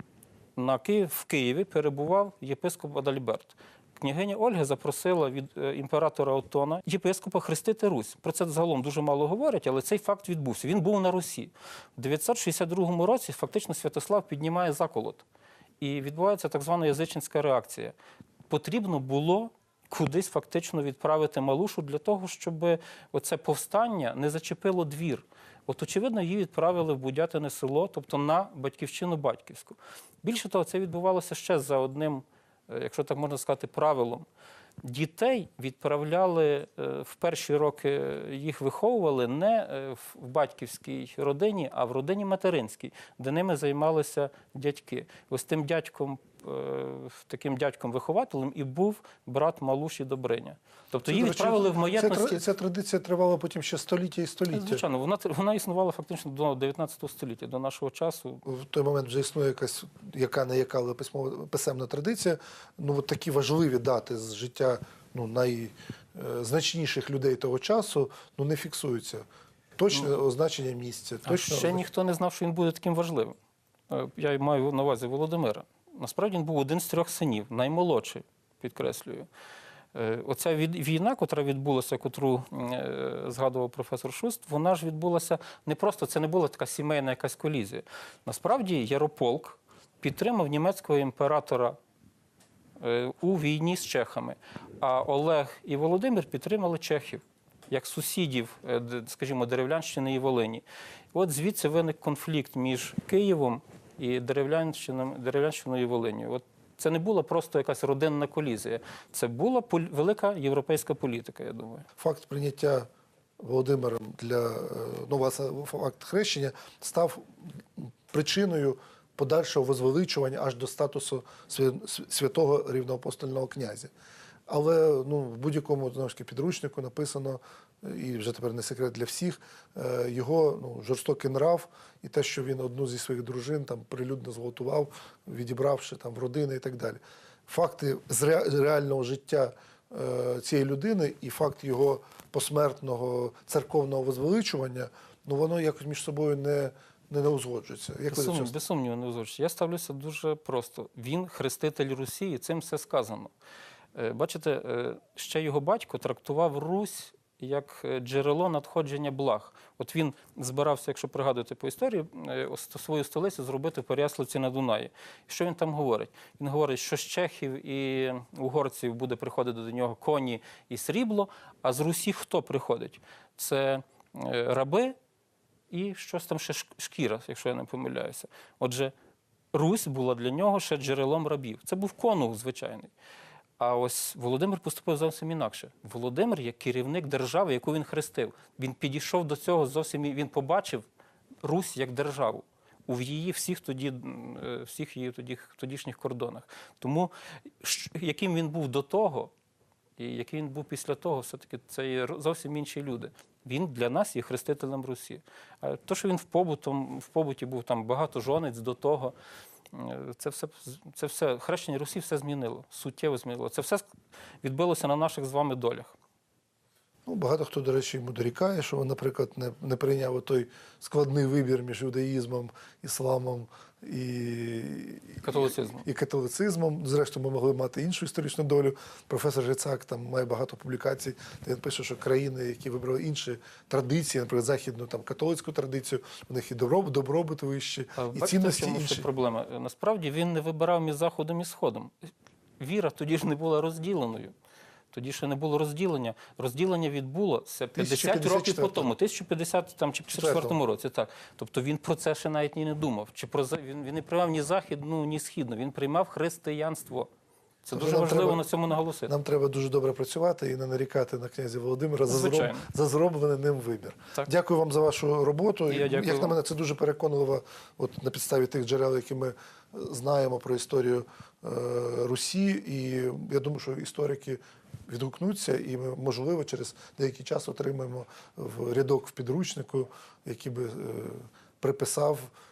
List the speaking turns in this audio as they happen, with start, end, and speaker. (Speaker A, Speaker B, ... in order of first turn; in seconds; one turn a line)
Speaker A: 0.6-15.2
Speaker A: 15.8-17.9
Speaker A: 18.5-34.2
Speaker A: 34.8-52.4
Speaker B: 51.1-54.8
Speaker A: 54.5-58.4
Speaker B: 58.4-71.9
Speaker A: 71.2-73.3
Speaker A: 73.9-79.3
Speaker A: 79.9-91.8
Speaker A: 92.8-111.9
Speaker B: 112.0-123.9
Speaker B: 124.5-148.5
Speaker A: 148.1-153.3
Speaker A: 153.9-174.9
Speaker A: 175.7-178.9
Speaker A: 179.5-182.9
Speaker A: 183.6-190.9
Speaker A: 191.4-197.1
Speaker A: 197.6-199.3
Speaker A: 200.0-209.1
Speaker A: 209.7-213.8
Speaker A: 214.4-215.9
Speaker B: 217.1-239.1
Speaker A: 225.2-225.8
Speaker A: 237.9-241.9
Speaker A: 242.6-244.3
Speaker A: 244.9-257.1
Speaker B: 247.7-248.9
Speaker B: 250.1-250.6
Speaker A: 257.6-259.1
Speaker B: 257.7-258.4
Speaker B: 259.1-282.3
Speaker A: 262.1-262.7
Speaker A: 265.7-266.3